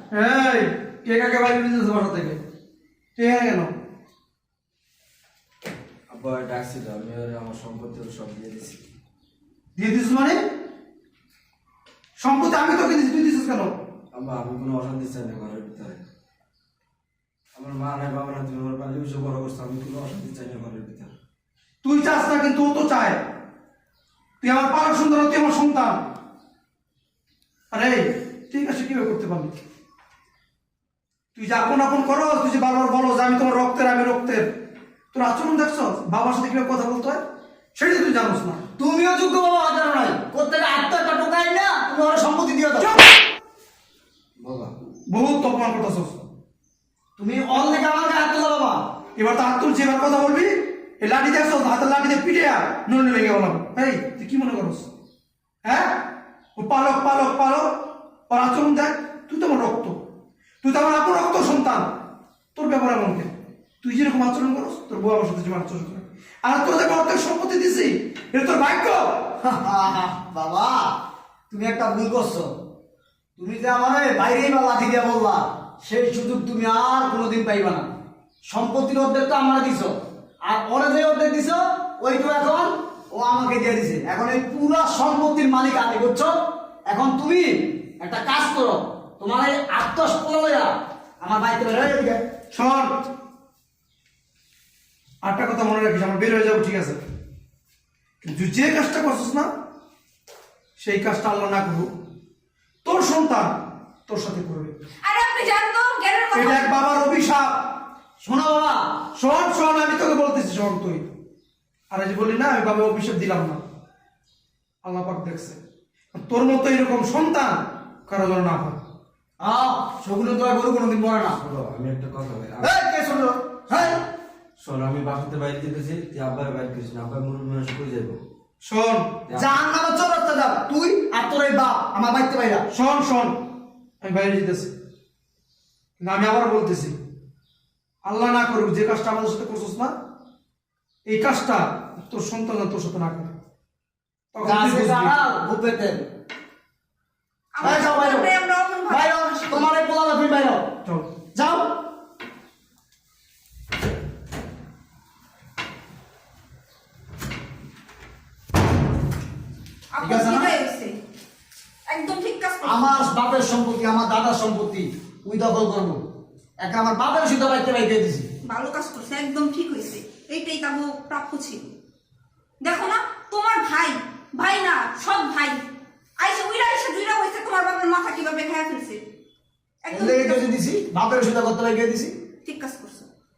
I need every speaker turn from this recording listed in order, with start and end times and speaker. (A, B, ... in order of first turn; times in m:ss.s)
0:00.1-0:02.4 A
0:03.2-0:03.7 A
0:06.1-0:08.8 B
0:09.8-0:10.4 A
0:12.2-0:13.7 A
0:14.1-0:16.0 B
0:17.5-0:21.1 B
0:21.8-0:23.2 A
0:24.4-0:26.0 A
0:27.7-0:29.5 A
0:31.3-0:34.4 A
0:35.1-0:37.2 A
0:37.8-0:38.6 A
0:38.8-0:43.0 C
0:44.4-0:44.7 B
0:45.1-0:46.2 A
0:47.2-0:48.8 C
0:49.2-0:54.9 A
0:55.6-0:56.0 A
0:56.6-1:00.0 A
1:00.6-1:01.9 A
1:02.5-1:03.3 A
1:03.8-1:09.3 A
1:09.4-1:10.9 C
1:11.5-1:12.5 C
1:13.4-1:17.9 C
1:18.5-1:26.3 C
1:26.9-1:32.2 C
1:32.5-1:33.0 A
1:35.2-1:37.0 A
1:38.2-1:39.5 A
1:40.8-1:41.9 A
1:42.8-1:43.6 A
1:44.1-1:44.7 A
1:45.0-1:46.7 D
1:46.3-1:47.6 A
1:48.2-1:48.9 C
1:49.2-1:51.0 A
1:51.9-1:53.6 A
1:54.8-1:55.6 A
1:56.1-1:58.8 A
1:59.4-2:01.4 C
2:01.4-2:02.7 B
2:02.6-2:04.0 C
2:04.6-2:08.2 B
2:08.6-2:09.1 A
2:09.3-2:09.5 B
2:09.3-2:12.6 C
2:12.7-2:13.4 A
2:14.0-2:14.7 A
2:16.0-2:16.9 A
2:18.0-2:19.9 A
2:21.0-2:23.3 A
2:24.3-2:25.2 A
2:24.4-2:26.0 C
2:27.5-2:29.7 D
2:27.6-2:28.3 C
2:28.9-2:30.6 C
2:31.3-2:31.8 C
2:39.9-2:41.0 D
2:40.0-2:40.5 C
2:41.9-2:42.8 D
2:42.6-2:46.0 C
2:46.6-2:48.3 C
2:48.4-2:51.7 D
2:52.6-2:55.6 D
2:56.2-2:59.0 D
2:59.8-3:00.4 D
2:59.9-3:02.1 C
3:02.4-3:03.1 D